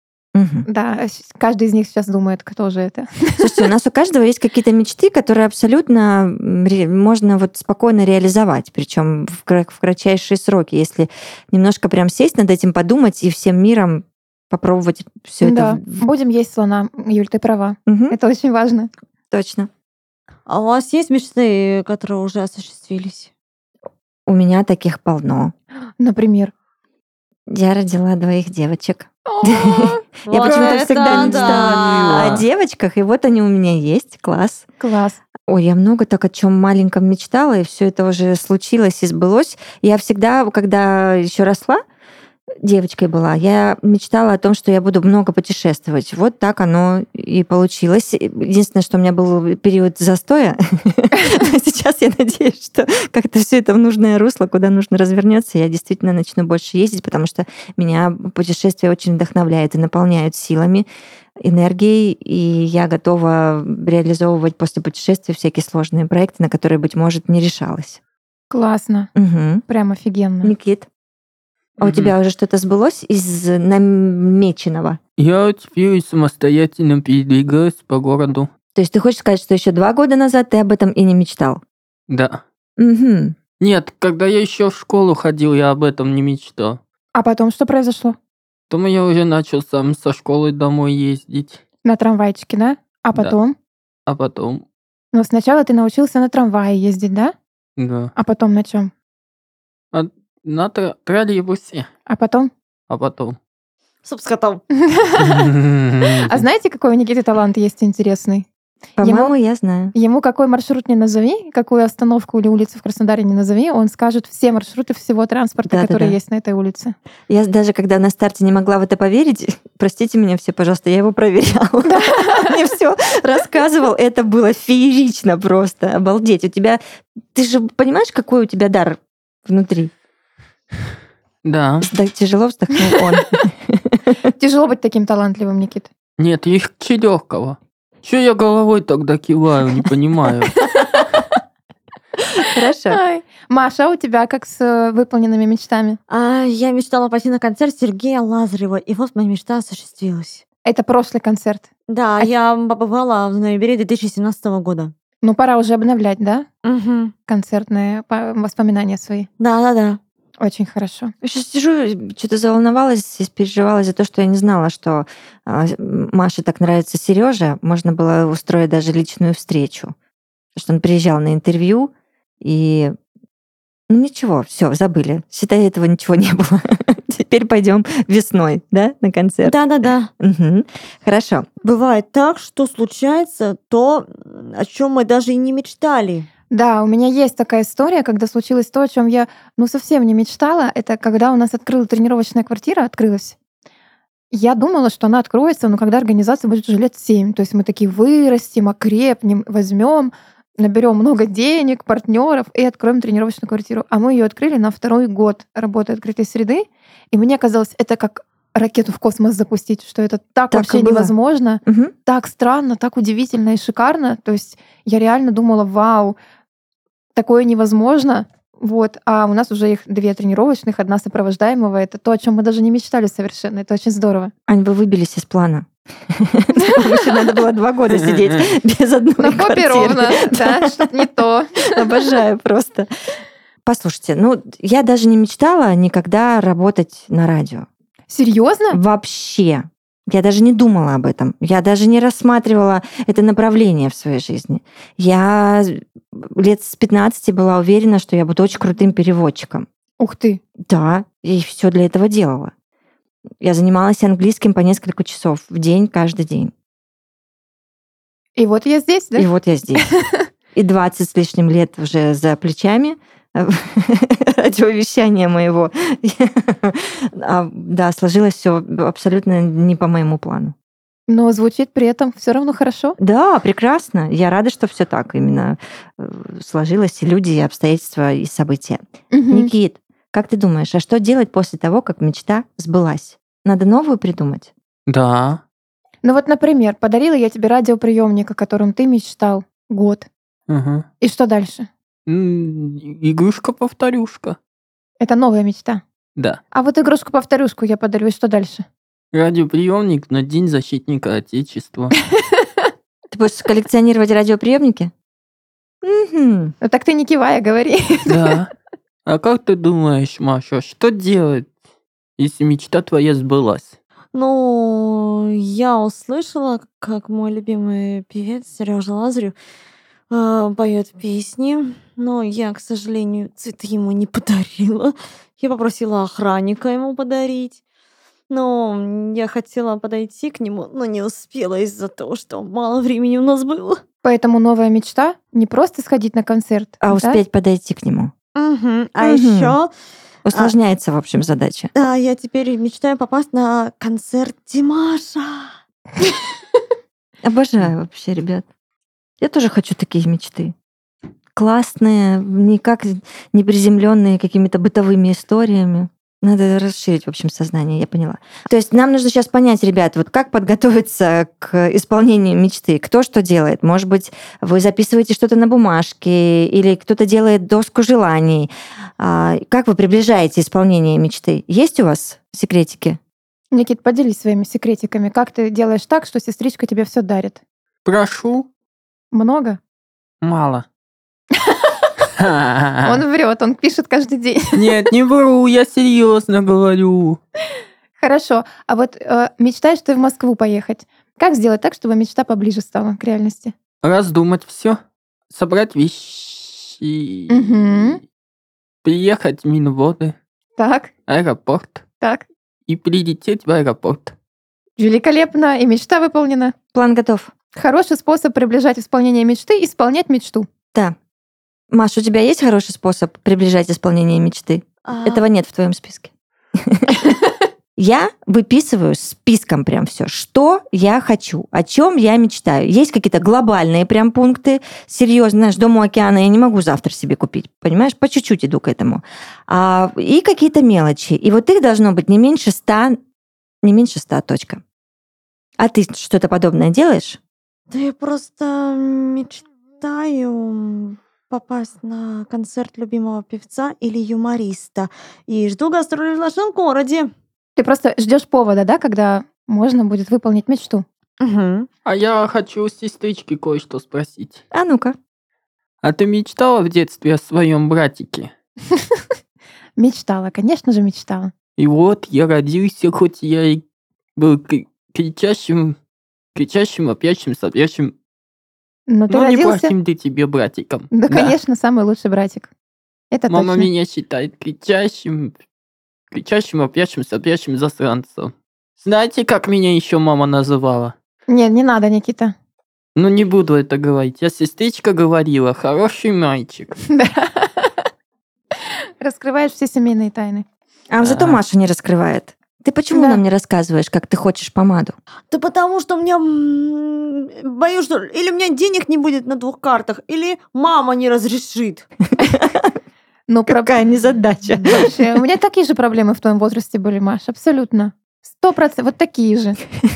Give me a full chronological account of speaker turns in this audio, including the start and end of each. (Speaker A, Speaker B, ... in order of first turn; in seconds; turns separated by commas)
Speaker A: 0.3-0.7, Speaker B: 0.7-3.5, Speaker A: 3.4-16.0, Speaker B: 15.4-18.9, Speaker A: 17.9-18.2, Speaker A: 19.3-19.7, Speaker C: 20.5-23.3, Speaker A: 24.3-25.5, Speaker B: 26.0-26.5, Speaker A: 27.5-34.7, Speaker B: 29.3-30.1, Speaker C: 30.3-32.4, Speaker D: 31.1-32.5, Speaker B: 34.8-35.2, Speaker A: 35.5-41.8, Speaker A: 42.6-60.9, Speaker A: 61.4-68.0, Speaker B: 68.5-69.1, Speaker A: 69.2-69.7, Speaker B: 69.7-70.5, Speaker A: 70.4-70.9, Speaker A: 71.8-75.0, Speaker D: 71.8-72.1, Speaker D: 75.2-78.5, Speaker A: 78.8-81.6, Speaker D: 82.1-82.4, Speaker A: 82.8-83.4, Speaker D: 83.6-86.8, Speaker B: 87.1-88.2, Speaker D: 88.7-91.6, Speaker B: 91.8-93.5, Speaker D: 94.1-94.6, Speaker B: 95.1-97.3, Speaker D: 97.8-98.1, Speaker B: 98.2-98.9, Speaker D: 99.9-101.9, Speaker B: 102.1-102.5, Speaker D: 102.9-103.4, Speaker C: 104.0-104.6, Speaker B: 104.7-105.5, Speaker D: 105.2-106.3, Speaker B: 106.2-108.5, Speaker A: 109.0-109.9, Speaker B: 109.0-109.3, Speaker B: 109.9-117.0, Speaker A: 115.7-116.2, Speaker A: 117.3-126.8, Speaker B: 121.9-122.5, Speaker A: 127.3-129.9, Speaker D: 131.4-131.9, Speaker A: 131.9-134.2, Speaker B: 134.4-135.9, Speaker D: 136.2-140.6, Speaker A: 142.4-143.0, Speaker B: 142.9-146.0, Speaker C: 146.1-150.4, Speaker B: 150.6-151.7, Speaker C: 151.9-154.9, Speaker B: 155.2-156.4, Speaker C: 156.7-157.1, Speaker B: 157.3-159.3, Speaker C: 159.4-160.0, Speaker B: 160.4-161.1, Speaker A: 161.2-169.9, Speaker A: 170.6-172.9, Speaker A: 173.9-179.6, Speaker C: 179.4-180.1, Speaker A: 180.2-181.5, Speaker C: 181.6-186.3, Speaker B: 186.5-193.4, Speaker B: 194.3-216.2, Speaker A: 210.5-211.9, Speaker B: 217.2-224.3, Speaker A: 224.5-231.1, Speaker D: 228.0-228.4, Speaker B: 229.2-232.0, Speaker A: 231.7-232.9, Speaker A: 233.6-237.7, Speaker B: 238.1-238.8, Speaker A: 238.7-249.7, Speaker B: 250.0-250.4, Speaker A: 250.7-252.5, Speaker A: 253.4-256.5, Speaker B: 258.4-260.2, Speaker A: 259.2-259.9, Speaker A: 260.6-270.5, Speaker B: 271.1-273.0, Speaker A: 273.0-284.5, Speaker B: 279.1-279.5, Speaker D: 284.9-285.4, Speaker B: 286.0-290.1, Speaker D: 290.5-290.9, Speaker B: 291.0-291.7, Speaker D: 292.1-294.4, Speaker B: 295.0-295.8, Speaker B: 296.5-298.7, Speaker D: 299.1-301.9, Speaker B: 302.3-302.6, Speaker A: 303.1-304.9, Speaker A: 305.8-306.5, Speaker B: 306.6-308.4, Speaker D: 308.1-308.5, Speaker D: 309.1-311.5, Speaker D: 312.2-313.8, Speaker C: 314.1-319.4, Speaker C: 320.1-327.6, Speaker C: 328.3-333.8, Speaker B: 334.0-337.2, Speaker A: 336.8-338.1, Speaker C: 338.4-339.7, Speaker A: 339.0-339.6, Speaker A: 340.2-341.7, Speaker C: 341.8-345.5, Speaker A: 347.2-348.4, Speaker A: 349.2-350.5, Speaker A: 351.4-373.0, Speaker B: 373.5-377.4, Speaker D: 377.9-378.5, Speaker B: 379.1-379.6, Speaker D: 380.2-380.7, Speaker D: 382.2-383.0, Speaker B: 382.8-384.7, Speaker D: 384.5-387.2, Speaker B: 388.0-393.5, Speaker D: 393.8-394.8, Speaker D: 395.3-397.9, Speaker B: 397.3-398.0, Speaker D: 398.8-400.2, Speaker B: 400.6-400.9, Speaker D: 401.1-401.8, Speaker B: 402.0-402.2, Speaker D: 402.7-404.1, Speaker B: 404.8-406.5, Speaker A: 406.7-407.3, Speaker B: 407.6-410.5, Speaker A: 411.7-417.2, Speaker C: 414.9-415.2, Speaker A: 417.8-433.0, Speaker A: 433.6-434.6, Speaker A: 435.6-437.2, Speaker C: 437.7-447.1, Speaker B: 447.6-450.9, Speaker C: 451.2-451.7, Speaker D: 451.9-454.4, Speaker A: 454.5-455.0, Speaker D: 455.8-458.3, Speaker B: 458.7-459.0, Speaker B: 459.8-461.3, Speaker D: 461.6-463.6, Speaker D: 464.2-465.8, Speaker D: 466.4-467.9, Speaker B: 468.9-469.7, Speaker D: 469.1-471.4, Speaker B: 470.9-472.5, Speaker B: 473.1-473.7, Speaker D: 473.3-475.4, Speaker D: 476.1-480.9, Speaker B: 481.3-482.3, Speaker D: 483.0-486.8, Speaker B: 486.9-487.9, Speaker B: 489.0-490.4, Speaker A: 490.9-494.9, Speaker D: 491.0-491.4, Speaker B: 492.9-493.2, Speaker C: 495.3-501.9, Speaker A: 502.2-502.8, Speaker B: 503.3-503.8, Speaker A: 503.5-504.9, Speaker B: 504.7-509.6